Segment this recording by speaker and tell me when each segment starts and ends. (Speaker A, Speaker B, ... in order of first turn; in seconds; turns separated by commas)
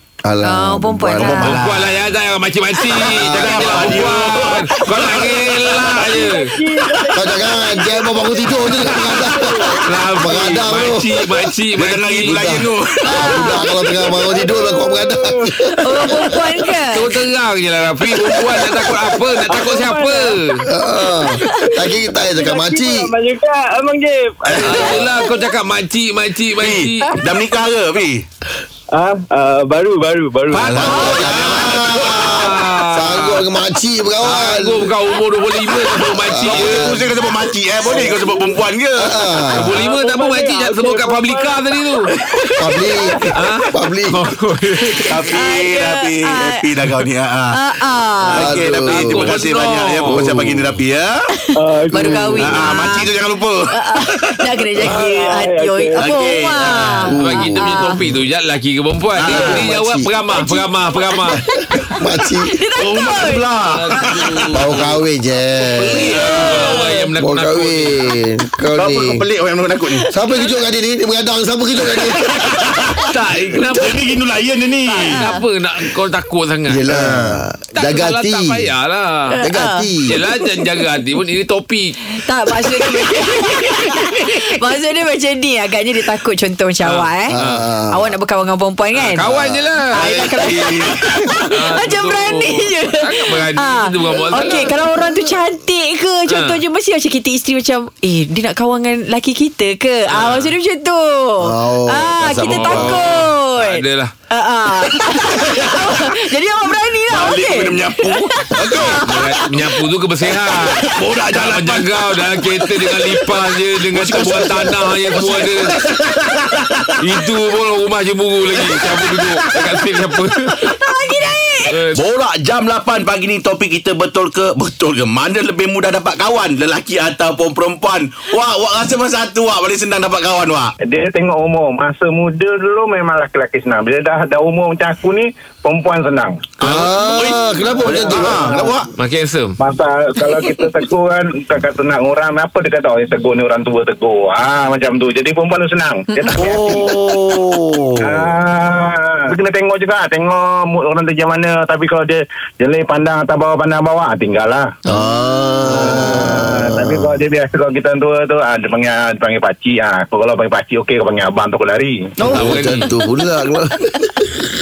Speaker A: 0.2-2.0, Speaker B: 0.4-1.6, Speaker C: 1.4-6.5, Speaker D: 3.0-5.8, Speaker A: 3.0-4.1, Speaker E: 5.9-7.7, Speaker A: 7.1-11.3, Speaker E: 9.1-9.7, Speaker C: 9.8-12.7, Speaker D: 11.8-13.5, Speaker B: 13.0-13.7, Speaker A: 13.1-16.4, Speaker E: 14.1-15.7, Speaker B: 15.8-17.1, Speaker C: 16.9-20.6, Speaker E: 19.4-20.4, Speaker A: 20.7-23.1, Speaker E: 22.2-25.1, Speaker D: 24.4-25.0, Speaker C: 24.6-27.1, Speaker D: 26.6-28.2, Speaker E: 28.9-30.8, Speaker C: 30.5-33.4, Speaker D: 30.6-32.4, Speaker A: 30.7-34.9, Speaker C: 34.2-36.9, Speaker A: 36.2-37.2, Speaker D: 36.4-39.2, Speaker E: 37.8-38.5, Speaker A: 39.0-39.8, Speaker C: 39.5-42.1, Speaker E: 39.8-41.8, Speaker D: 42.2-42.5, Speaker A: 42.6-44.2, Speaker C: 43.3-45.1, Speaker D: 45.0-47.6, Speaker B: 45.3-46.6, Speaker B: 47.5-48.5, Speaker D: 48.2-51.1, Speaker A: 48.3-49.4, Speaker C: 48.8-50.2, Speaker A: 50.0-50.8, Speaker E: 51.5-52.6, Speaker B: 51.9-53.1, Speaker D: 52.4-54.9, Speaker B: 53.7-58.0, Speaker E: 54.8-56.1, Speaker D: 56.0-57.1, Speaker A: 57.1-57.9, Speaker C: 57.2-61.4, Speaker D: 59.2-59.7, Speaker A: 59.3-60.1, Speaker B: 60.9-63.5, Speaker A: 61.9-62.6, Speaker D: 62.8-64.7, Speaker C: 63.7-64.9, Speaker A: 64.5-66.2, Speaker C: 65.8-68.1, Speaker D: 66.1-66.8, Speaker B: 66.1-67.0, Speaker A: 67.2-69.2, Speaker D: 68.7-70.1, Speaker A: 70.1-72.4, Speaker D: 72.4-73.1, Speaker B: 72.5-73.1, Speaker C: 73.1-74.0, Speaker D: 73.7-75.3, Speaker B: 74.9-75.4, Speaker C: 75.1-76.8, Speaker A: 76.7-78.7, Speaker C: 77.8-79.3, Speaker B: 79.3-80.3, Speaker A: 79.4-80.2, Speaker C: 80.1-82.0, Speaker B: 82.1-87.4, Speaker C: 86.8-87.6, Speaker A: 87.3-88.1, Speaker B: 87.9-89.2, Speaker C: 88.9-90.1, Speaker A: 89.2-90.9, Speaker B: 89.9-109.0, Speaker D: 90.3-90.9, Speaker C: 91.4-94.7, Speaker C: 96.3-96.6, Speaker C: 100.1-100.5, Speaker A: 101.4-103.0, Speaker C: 102.4-104.1, Speaker D: 105.1-106.2, Speaker D: 107.1-109.6, Speaker C: 109.0-115.7, Speaker D: 110.5-113.2, Speaker D: 113.9-117.0, Speaker C: 117.0-120.7, Speaker D: 118.6-119.5, Speaker B: 120.6-121.8, Speaker C: 121.7-122.0, Speaker D: 121.9-130.7, Speaker F: 130.8-136.5, Speaker D: 136.6-138.9, Speaker A: 136.6-138.7, Speaker F: 137.9-138.7, Speaker C: 138.9-139.6, Speaker F: 139.6-146.9, Speaker D: 146.3-148.3, Speaker F: 148.0-154.8, Speaker B: 154.9-155.8, Speaker A: 154.9-157.1, Speaker F: 155.7-162.1, Speaker A: 162.2-164.5, Speaker C: 162.3-162.9